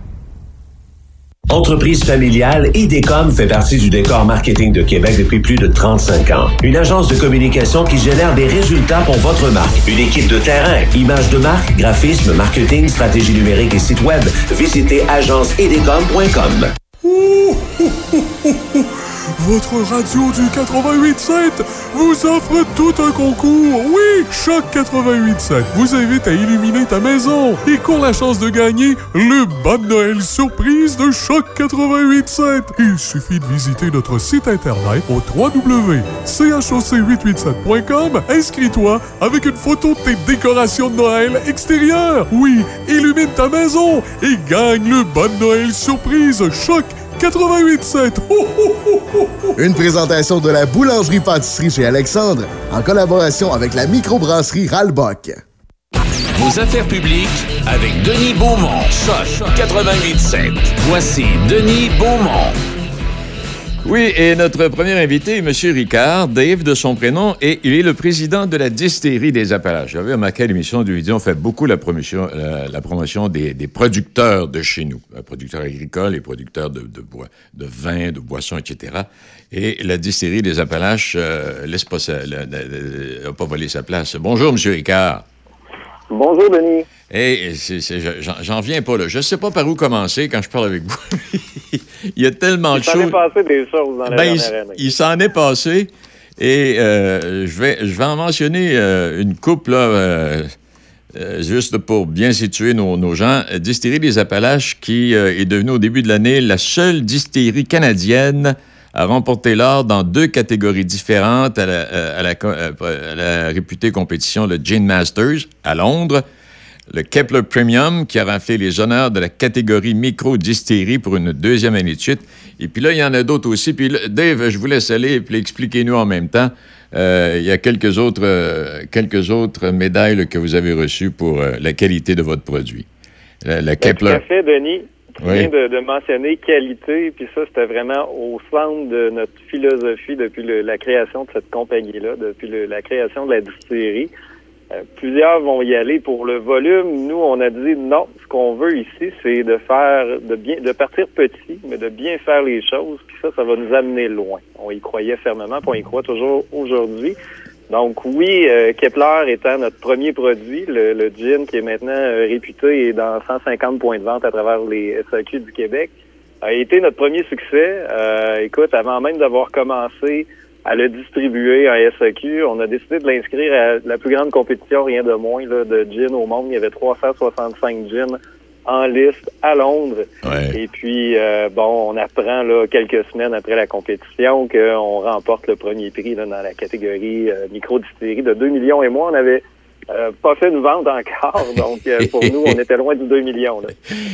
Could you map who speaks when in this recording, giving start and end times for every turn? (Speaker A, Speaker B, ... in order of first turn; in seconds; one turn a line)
Speaker A: 1.5-16.7
Speaker B: 17.0-49.5
Speaker C: 49.6-55.4
Speaker D: 56.4-62.6
Speaker E: 63.8-85.2
Speaker F: 86.1-86.9
Speaker E: 87.1-93.2
Speaker F: 92.7-94.8
Speaker E: 94.1-100.5
Speaker E: 101.1-116.2
Speaker E: 116.9-132.9
Speaker E: 133.4-134.2
Speaker F: 133.8-144.1
Speaker E: 135.2-135.5
Speaker F: 144.8-157.2
Speaker F: 157.7-165.9
Speaker F: 166.4-193.7
Speaker E: 180.2-180.6
Speaker E: 192.0-192.6